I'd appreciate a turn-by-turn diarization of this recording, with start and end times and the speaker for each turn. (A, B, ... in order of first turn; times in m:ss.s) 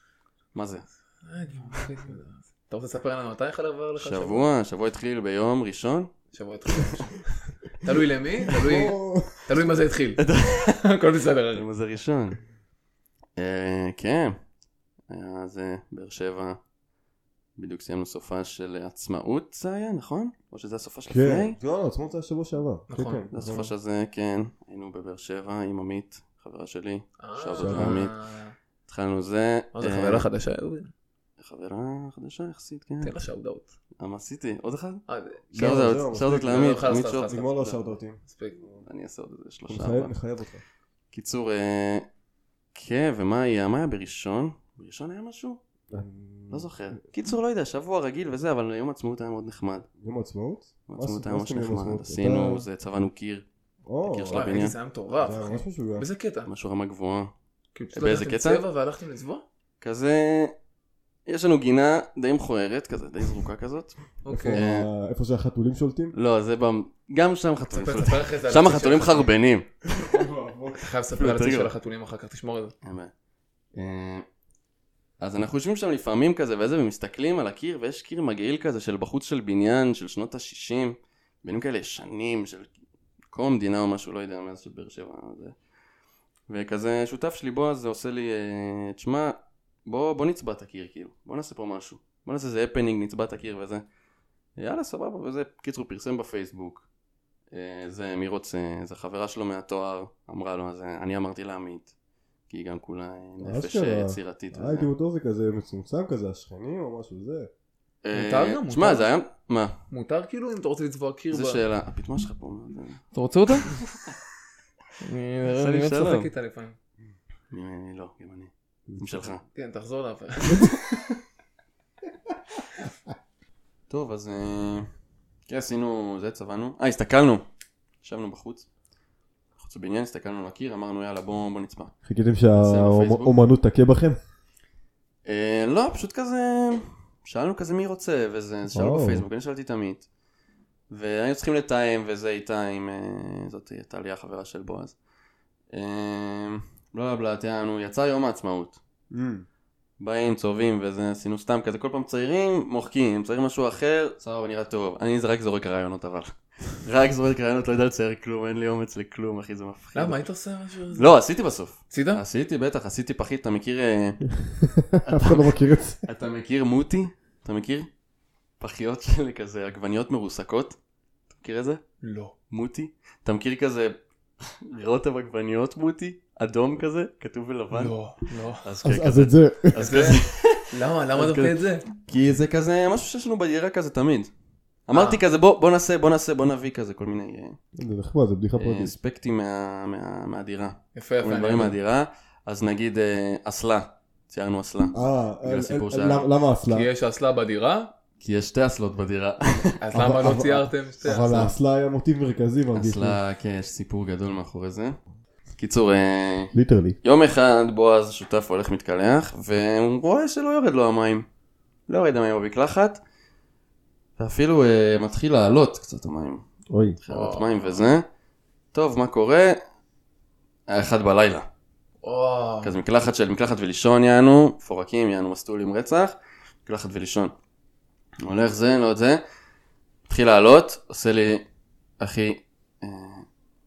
0:00.5-0:00.9 A
0:01.2-0:04.4 B
0:04.0-0:06.1 A
0:06.3-0:11.6 B
0:08.4-0:09.6 C
0:10.2-0:10.8 A
0:11.6-0:12.4 A
0:13.4-0:14.4 A
0:15.1-0:16.6 A
0:17.6-0:21.6 A
0:21.1-0:23.7 C
0:22.9-0:23.3 B
0:23.3-0:28.2 A
0:27.2-0:28.6 B
0:27.6-0:28.0 C
0:28.9-0:30.3 A
0:29.7-0:30.9 B
0:31.4-0:33.2 A
0:33.0-0:33.8 B
0:34.0-0:35.0 A
0:35.1-0:35.4 B
0:35.5-0:38.8 C
0:35.6-0:37.7 A
0:36.4-0:37.5 B
0:38.3-0:38.6 B
0:38.8-0:40.2 A
0:39.7-0:40.6 C
0:41.1-0:42.1 A
0:42.8-0:45.6 A
0:45.9-0:46.7 C
0:46.5-0:49.9 A
0:50.0-0:52.6 C
0:50.9-0:53.5 A
0:53.8-0:54.5 C
0:54.1-0:54.8 A
0:54.3-0:56.5 B
0:55.2-0:56.1 C
0:56.5-0:57.3 A
0:57.8-0:59.4 B
0:57.9-0:58.6 A
0:59.8-1:00.6 A
1:01.3-1:04.0 A
1:04.2-1:04.6 B
1:04.3-1:06.2 C
1:04.5-1:04.9 A
1:06.1-1:09.7 A
1:07.7-1:09.3 B
1:09.8-1:10.9 C
1:10.7-1:12.7 B
1:11.1-1:11.7 A
1:12.8-1:13.1 A
1:13.8-1:14.2 A
1:15.2-1:22.7 A
1:23.3-1:25.6 A
1:26.5-1:33.8 A
1:34.6-1:36.9 A
1:37.5-1:41.9 A
1:42.5-1:44.9 A
1:43.4-1:47.5 C
1:48.0-1:49.8 A
1:48.1-1:49.1 B
1:49.9-1:51.6 B
1:51.3-1:53.0 A
1:53.1-1:53.7 B
1:55.0-1:56.8 B
1:55.6-1:56.3 A
1:57.5-1:59.4 A
1:59.5-2:01.0 B
2:03.9-2:04.9 A
2:05.5-2:07.4 A
2:08.0-2:08.7 A
2:09.6-2:11.9 A
2:12.0-2:14.2 C
2:12.6-2:13.4 A
2:15.2-2:20.1 A
2:18.7-2:19.3 C
2:20.9-2:25.0 A
2:25.7-2:28.8 A
2:29.1-2:29.5 C
2:30.0-2:40.3 A
2:40.0-2:41.1 B
2:41.0-2:44.3 A
2:41.9-2:42.2 B
2:44.6-2:46.0 C
2:45.1-2:47.9 A
2:48.6-2:50.8 A
2:51.3-2:51.8 A
2:52.0-2:52.3 B
2:52.5-3:04.3 A
2:57.7-2:58.6 B
2:58.8-3:00.0 C
2:59.8-3:01.8 B
3:04.9-3:07.6 A
3:04.9-3:05.2 B
3:07.8-3:09.0 C
3:08.6-3:16.3 A
3:11.0-3:11.8 B
3:14.9-3:16.9 C
3:16.7-3:17.9 B
3:18.2-3:19.8 A
3:19.8-3:21.5 B
3:19.9-3:23.2 C
3:22.7-3:25.0 A
3:25.6-3:31.3 A
3:26.5-3:27.0 C
3:31.9-3:33.0 A
3:34.2-3:36.5 A
3:36.7-3:37.0 C
3:37.0-3:38.0 A
3:37.1-3:37.9 B
3:38.7-3:39.6 A
3:40.7-3:41.5 A
3:42.0-3:42.7 B
3:42.6-3:47.3 A
3:48.2-3:49.2 A
3:50.1-3:51.4 A
3:52.0-3:53.3 A